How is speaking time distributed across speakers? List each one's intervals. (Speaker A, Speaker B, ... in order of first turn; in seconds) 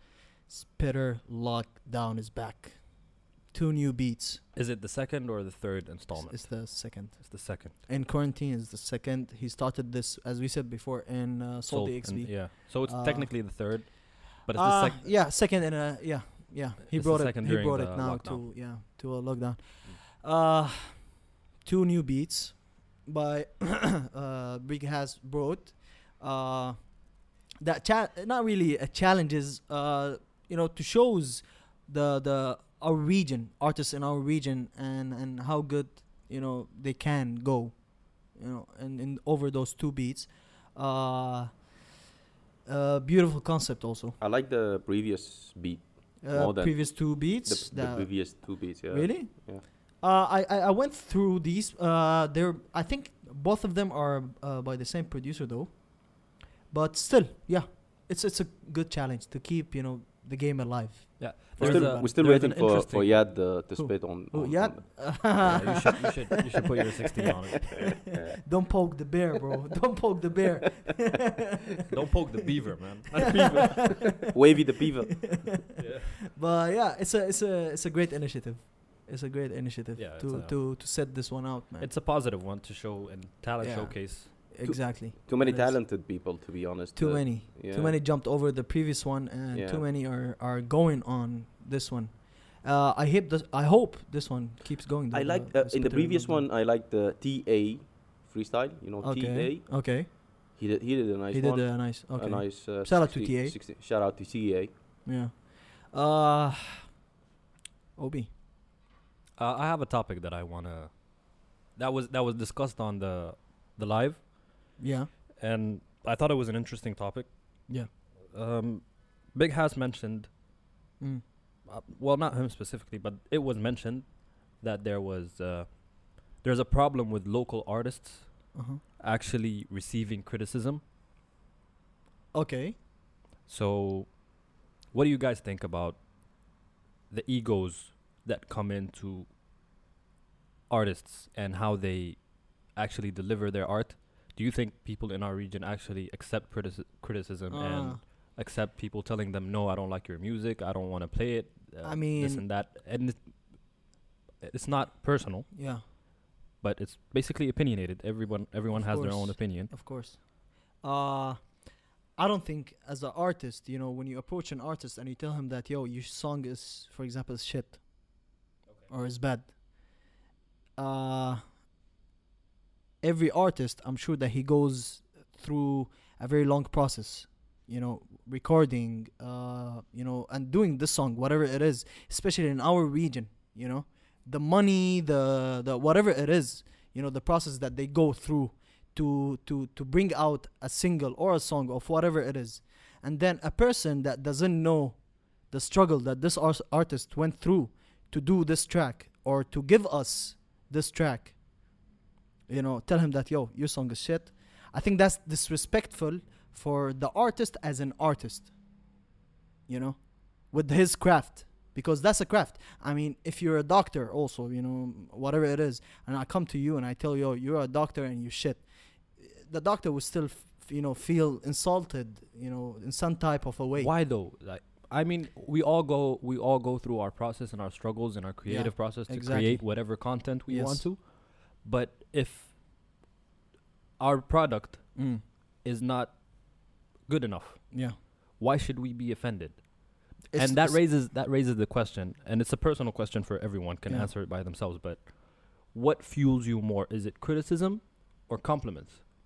Speaker A: 0.5-4.4, 6.1-13.5, 14.5-27.1, 27.6-41.6, 42.6-44.2, 46.2-62.1, 63.7-66.5, 68.4-71.6, 73.4-73.9, 76.3-81.9, 83.6-85.8, 86.9-96.5, 99.0-100.1, 101.3-103.5, 105.0-106.8, 108.0-108.3, 114.8-115.1, 128.5-128.8, 132.3-132.8, 147.5-148.0, 151.8-152.4, 155.5-155.8, 158.7-160.3, 160.8-161.6, 162.2-167.8, 168.9-169.5, 170.8-171.4, 173.0-201.4, 202.5-208.5, 209.7-223.9, 228.5-230.9, 234.9-235.2, 237.7-238.0, 240.3-240.9
Speaker B: 4.5-7.7, 11.7-15.1, 16.9-18.4, 61.2-63.3, 65.4-68.0, 71.9-73.9, 75.8-76.2, 80.0-80.6, 81.8-84.3, 109.4-110.9, 111.7-114.3, 115.4-117.3, 118.3-120.3, 121.7-130.8, 133.5-134.2, 134.9-136.0, 137.1-139.3, 140.7-153.3, 154.4-155.5, 156.6-159.7, 223.8-232.5, 234.0-236.2, 237.0-239.7, 240.2-249.0
Speaker C: 44.2-49.6, 61.6-65.5, 73.2-75.4, 84.6-88.0, 89.5-89.8, 95.1-104.7